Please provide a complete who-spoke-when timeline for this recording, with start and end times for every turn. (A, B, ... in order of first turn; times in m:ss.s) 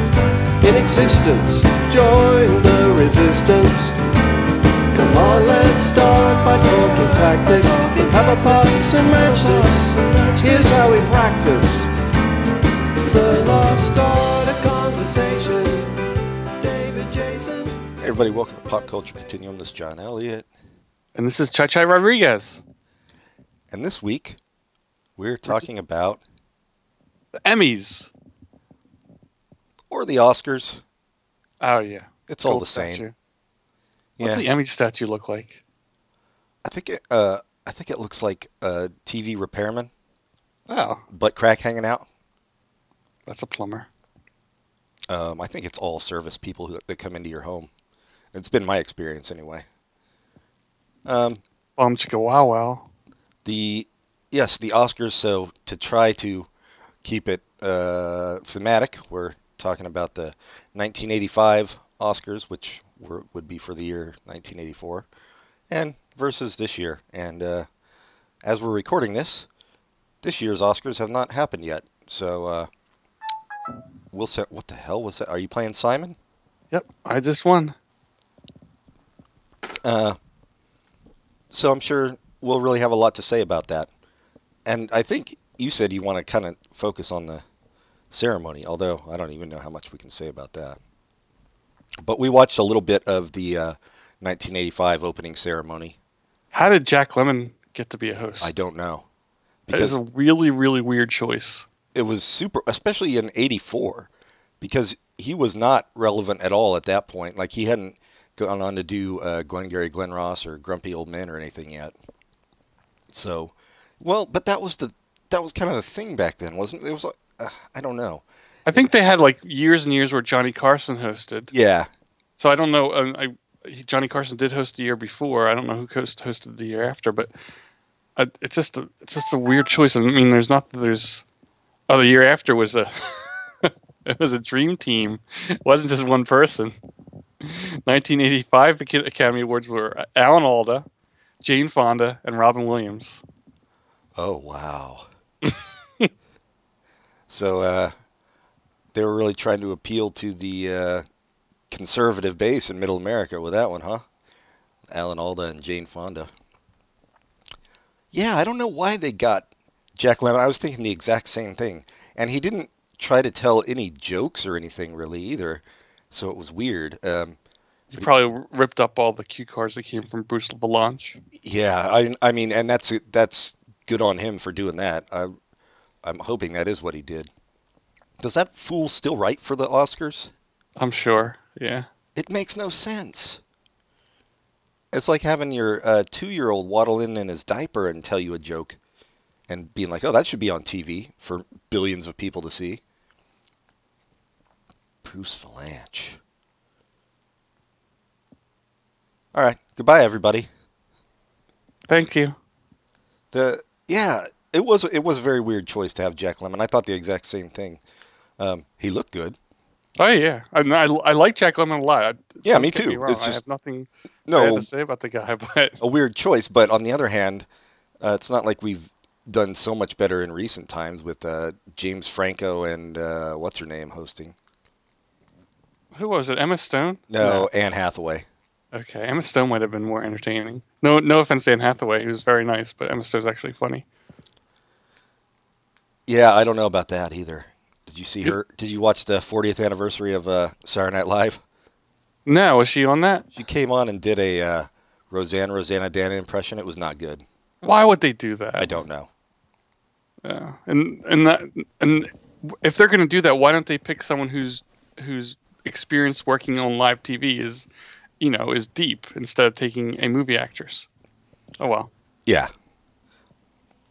0:00.6-0:04.0 A
0:04.9-0:11.9 A
0:13.0-0:16.0 A
0:16.6-0:17.8 A
0:18.0-0:20.5 B
0:21.2-0:22.6 C
0:23.7-0:24.4 B
0:25.2-0:26.2 B
0:27.4-0:28.1 C
0:29.9-0:30.8 B
0:31.6-0:33.1 C
0:32.3-0:33.0 B
0:34.2-0:34.5 B
0:34.2-0:35.6 C
0:36.6-0:39.9 B
0:40.7-0:41.0 C
0:41.1-0:42.1 B
0:43.3-0:43.9 C
0:45.1-0:47.7 B
0:48.3-0:49.6 B
0:51.1-0:51.4 B
0:51.8-0:52.9 C
0:53.4-0:56.5 B
0:57.0-1:05.1 B
1:05.7-1:07.7 B
1:08.4-1:09.5 B
1:10.2-1:12.7 B
1:14.1-1:16.2 B
1:16.7-1:17.8 C
1:19.8-1:20.2 B
1:21.5-1:23.9 B
1:24.7-1:27.4 B
1:28.1-1:30.8 B
1:32.0-1:36.0 B
1:36.5-1:38.6 C
1:38.4-1:39.1 B
1:39.7-1:40.0 B
1:39.7-1:41.7 C
1:41.9-1:44.1 B
1:44.6-1:52.0 B
1:53.1-1:58.2 B
1:58.7-2:01.5 C
2:01.5-2:01.9 B
2:02.4-2:07.3 C
2:08.2-2:11.2 C
2:11.9-2:16.8 C
2:17.4-2:20.8 C
2:21.4-2:23.2 C
2:24.2-2:25.1 B
2:25.5-2:26.1 C
2:27.3-2:27.9 B
2:28.9-2:31.0 B
2:31.7-2:34.0 B
2:34.9-2:36.3 B
2:38.1-2:47.4 B
2:47.9-2:51.2 C
2:51.4-2:55.3 B
2:56.0-2:57.3 B
2:58.2-3:00.3 B
3:00.8-3:01.9 C
3:02.2-3:03.4 B
3:04.9-3:08.8 B
3:09.5-3:12.8 B
3:15.0-3:16.2 B
3:19.3-3:20.5 B
3:21.9-3:22.4 C
3:23.3-3:27.8 B
3:28.4-3:29.4 B
3:30.0-3:35.8 C
3:32.4-3:33.4 B
3:34.3-3:34.7 B
3:35.8-3:37.5 B
3:38.0-3:44.4 B
3:45.9-3:47.5 C
3:47.1-3:48.3 B
3:48.7-3:53.9 C
3:56.1-4:01.4 B
4:02.3-4:03.3 C
4:03.3-4:07.2 B
4:07.6-4:08.8 C
4:08.6-4:09.1 B
4:10.2-4:17.7 C
4:18.2-4:20.9 C
4:21.6-4:21.9 C
4:22.3-4:22.5 B